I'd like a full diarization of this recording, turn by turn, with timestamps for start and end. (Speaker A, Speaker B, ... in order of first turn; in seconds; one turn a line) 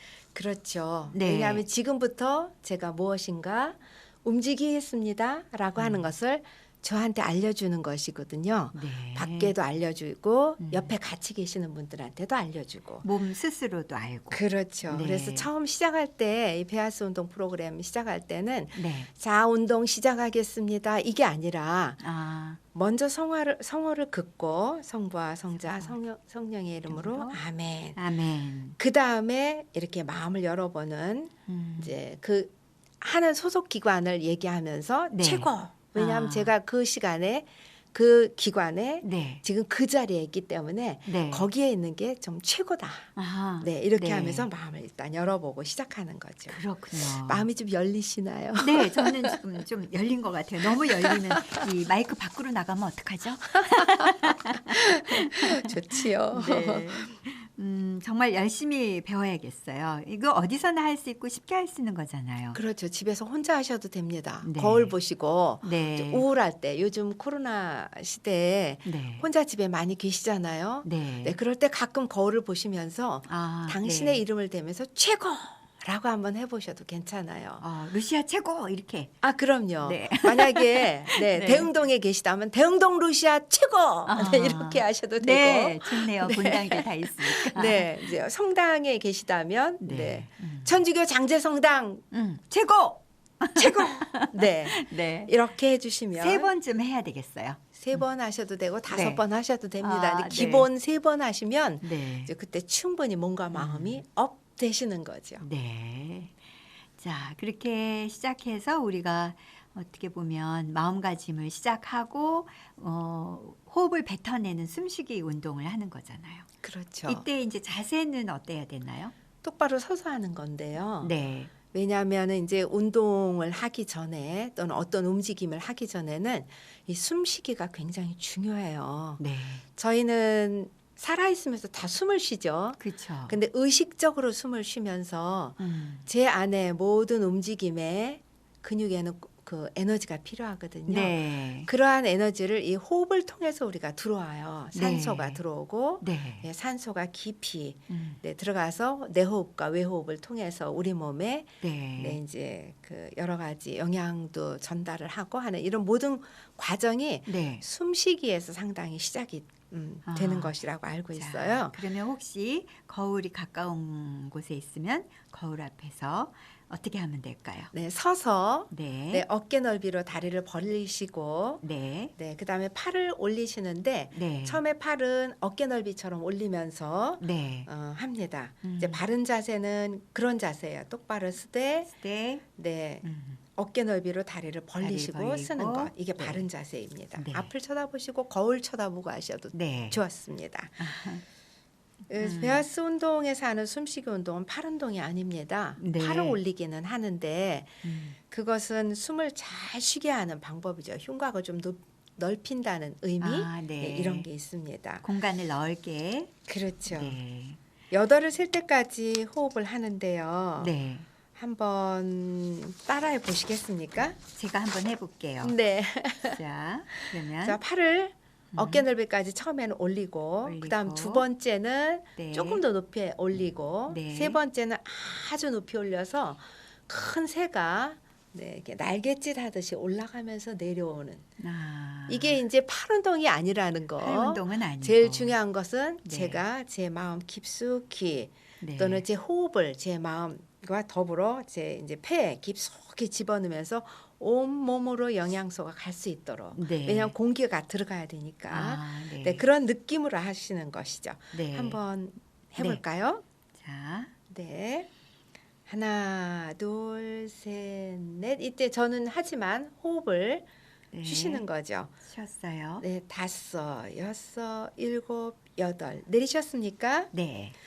Speaker A: 0.3-13.1
Speaker B: 1.1-1.6
Speaker B: 5.8-6.1
Speaker B: 8.7-9.5
Speaker B: 10.6-10.9
Speaker B: 13.0-15.5
Speaker A: 14.3-22.0
Speaker B: 18.8-19.1
Speaker B: 22.0-22.6
Speaker A: 22.7-28.0
Speaker B: 25.6-25.9
Speaker B: 26.9-27.4
Speaker B: 27.9-28.8
Speaker A: 28.8-49.4
Speaker B: 31.5-31.9
Speaker B: 35.1-36.5
Speaker B: 39.0-39.4
Speaker B: 41.1-41.5
Speaker B: 43.1-44.5
Speaker B: 46.5-47.5
Speaker B: 48.6-62.6
Speaker A: 50.8-51.4
Speaker A: 53.7-57.1
Speaker A: 62.5-77.6
Speaker B: 64.4-64.9
Speaker B: 65.6-66.2
Speaker B: 68.8-69.2
Speaker B: 70.8-71.4
Speaker B: 73.2-74.2
Speaker B: 77.6-79.1
Speaker A: 79.2-92.0
Speaker B: 79.8-81.7
Speaker B: 84.1-88.1
Speaker B: 89.8-90.8
Speaker B: 92.1-95.3
Speaker A: 93.6-96.5
Speaker B: 96.2-98.0
Speaker A: 97.8-105.4
Speaker B: 98.9-99.2
Speaker B: 99.8-100.7
Speaker B: 101.8-102.3
Speaker B: 103.5-104.0
Speaker B: 105.4-106.4
Speaker B: 107.0-116.5
Speaker A: 116.6-117.2
Speaker B: 117.1-119.1
Speaker A: 119.4-121.1
Speaker B: 121.0-121.5
Speaker A: 121.7-129.2
Speaker B: 129.2-129.6
Speaker A: 129.8-161.8
Speaker B: 132.8-133.4
Speaker B: 135.6-136.1
Speaker B: 140.9-141.7
Speaker B: 144.7-145.4
Speaker B: 146.0-146.5
Speaker B: 147.9-148.2
Speaker B: 151.6-152.2
Speaker B: 157.3-157.6
Speaker B: 160.1-160.6
Speaker B: 161.1-167.7
Speaker A: 167.7-171.6
Speaker B: 168.7-169.2
Speaker B: 171.6-172.1
Speaker A: 172.2-181.9
Speaker B: 174.1-174.6
Speaker B: 177.2-177.7
Speaker B: 178.6-179.0
Speaker B: 181.9-182.4
Speaker A: 182.6-190.8
Speaker B: 183.0-183.4
Speaker B: 184.8-186.4
Speaker B: 187.2-187.5
Speaker B: 189.5-190.0
Speaker B: 190.8-191.2
Speaker A: 192.1-205.0
Speaker B: 192.2-192.6
Speaker B: 195.8-196.4
Speaker B: 197.8-198.2
Speaker B: 203.2-204.3
Speaker B: 205.0-206.3
Speaker A: 206.5-207.2
Speaker B: 206.9-207.6
Speaker A: 207.9-210.7
Speaker B: 210.6-211.1
Speaker A: 211.4-214.2
Speaker B: 214.3-215.5
Speaker A: 215.4-216.4
Speaker B: 216.2-217.6
Speaker A: 217.3-231.2
Speaker B: 218.5-218.8
Speaker B: 220.4-221.2
Speaker B: 222.2-222.6
Speaker B: 223.9-224.4
Speaker B: 231.4-232.4
Speaker A: 232.1-253.2
Speaker B: 234.0-235.3
Speaker B: 236.0-236.4
Speaker B: 238.6-239.0
Speaker B: 246.5-247.1
Speaker B: 248.5-249.4
Speaker B: 251.3-251.8
Speaker B: 253.6-254.1
Speaker A: 254.3-254.9
Speaker A: 255.7-260.5
Speaker B: 260.9-261.4
Speaker A: 261.0-261.9
Speaker B: 262.1-262.9
Speaker A: 262.8-267.1
Speaker B: 267.1-267.5